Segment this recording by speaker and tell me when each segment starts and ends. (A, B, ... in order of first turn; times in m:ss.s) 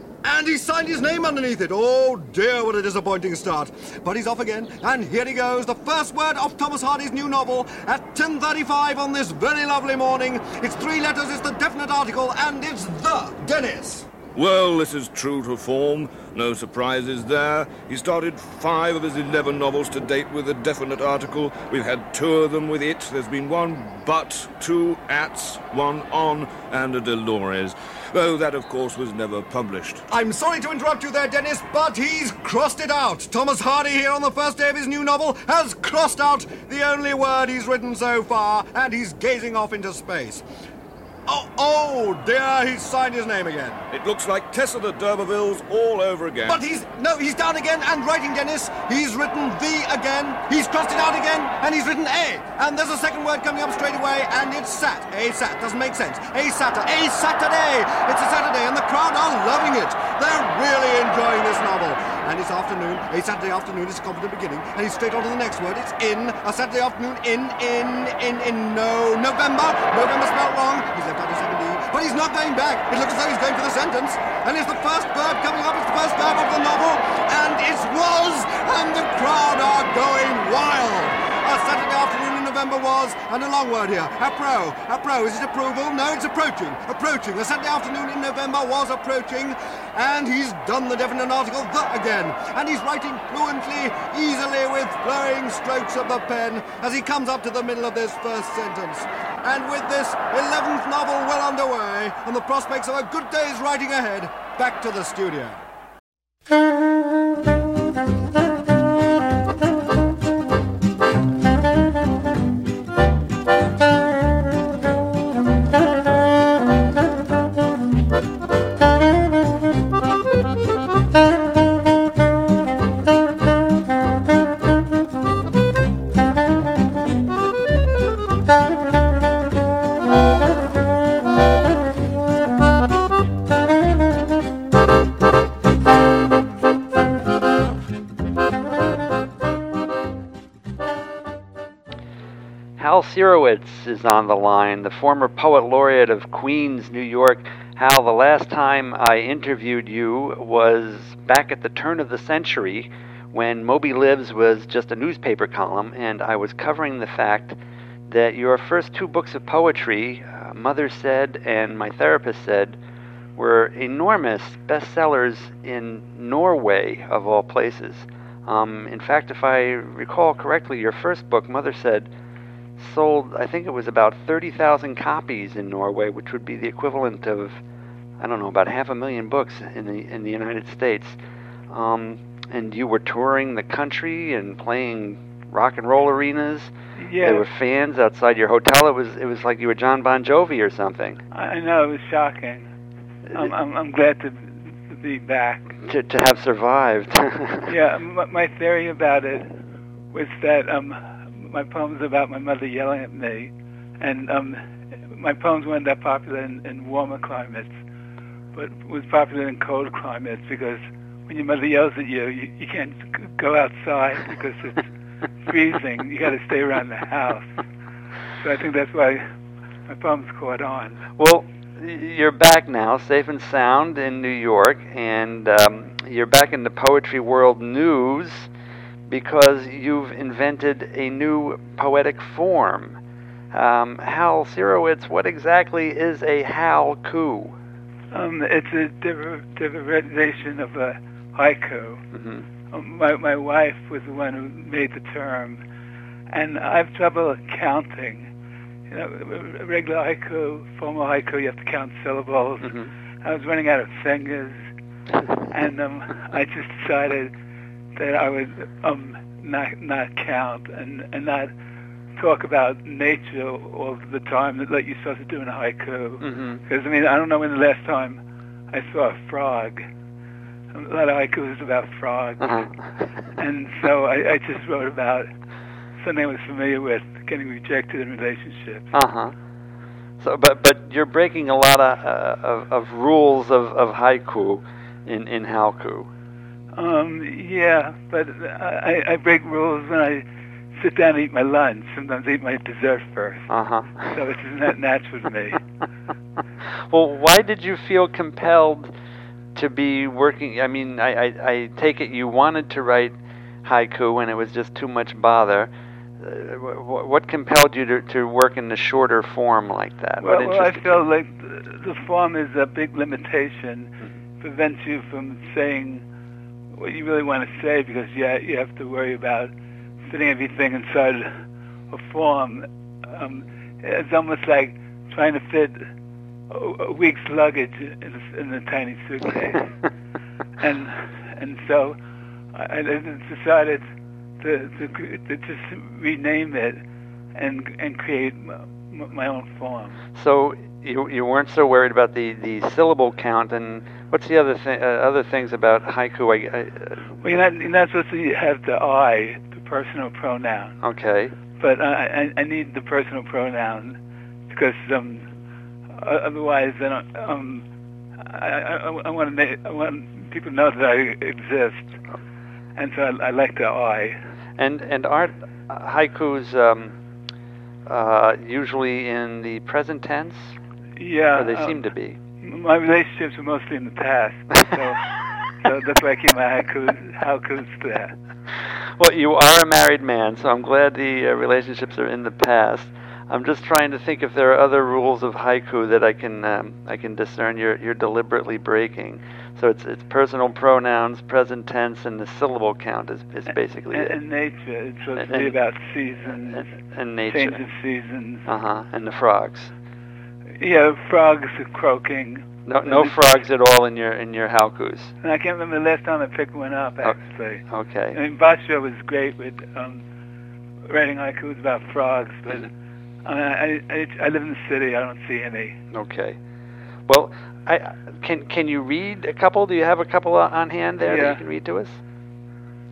0:00.2-0:14.1 A
0:14.3-0:30.0 B
0:30.1-0:40.4 A
0:41.3-0:43.8 A
0:43.9-0:46.6 B
0:46.5-1:45.6 A
2:22.8-2:37.6 C
2:38.1-2:42.8 C
2:43.4-2:52.1 C
2:52.8-2:57.6 C
2:58.2-3:01.2 C
3:01.7-3:11.2 C
3:06.9-3:07.5 D
3:11.3-3:12.7 D
3:13.3-3:15.8 D
3:15.8-3:17.7 C
3:17.6-3:19.6 D
3:20.1-3:27.7 D
3:28.5-3:34.9 D
3:35.4-3:37.6 D
3:38.4-3:39.2 D
3:39.9-3:41.0 D
3:41.2-3:48.5 C
3:49.1-3:53.0 C
3:53.5-3:57.5 C
3:58.1-4:02.0 D
4:02.1-4:02.4 C
4:02.7-4:05.6 D
4:06.3-4:08.3 D
4:08.9-4:14.6 D
4:12.6-4:12.9 C
4:15.5-4:17.3 D
4:18.0-4:21.5 D
4:22.2-4:29.8 D
4:26.2-4:26.6 C
4:30.7-4:32.7 D
4:32.4-4:33.0 C
4:33.4-4:35.3 D
4:36.0-4:38.9 D
4:38.9-4:39.3 C
4:40.2-4:46.1 C
4:46.7-4:53.4 D
4:53.5-4:54.2 C
4:54.1-4:55.6 D
4:56.9-4:58.9 C
4:59.5-5:11.0 C
5:10.2-5:16.0 D
5:16.7-5:19.5 D
5:20.1-5:25.8 D
5:26.5-5:29.7 D
5:30.6-5:32.0 D
5:32.5-5:33.8 D
5:34.4-5:36.8 D
5:37.3-5:40.0 D
5:40.2-5:47.2 C
5:47.2-5:50.7 D
5:50.8-5:51.3 C
5:51.6-5:54.0 D
5:54.5-5:55.3 D
5:55.9-5:57.6 D
5:58.2-6:01.9 D
6:02.8-6:04.2 D
6:04.6-6:06.9 C
6:07.9-6:10.6 C
6:11.0-6:11.8 D
6:11.4-6:12.2 C
6:12.4-6:18.2 D
6:19.0-6:34.2 C
6:33.9-6:36.6 D
6:35.2-6:35.6 C
6:36.5-6:37.6 C
6:37.3-6:38.5 D
6:38.5-6:39.7 C
6:40.6-6:43.2 D
6:42.6-6:45.1 C
6:45.2-6:50.0 D
6:47.7-6:48.2 C
6:50.9-6:52.7 D
6:53.2-6:55.8 D
6:55.9-6:56.4 C
6:57.1-7:02.0 C
7:01.0-7:01.4 D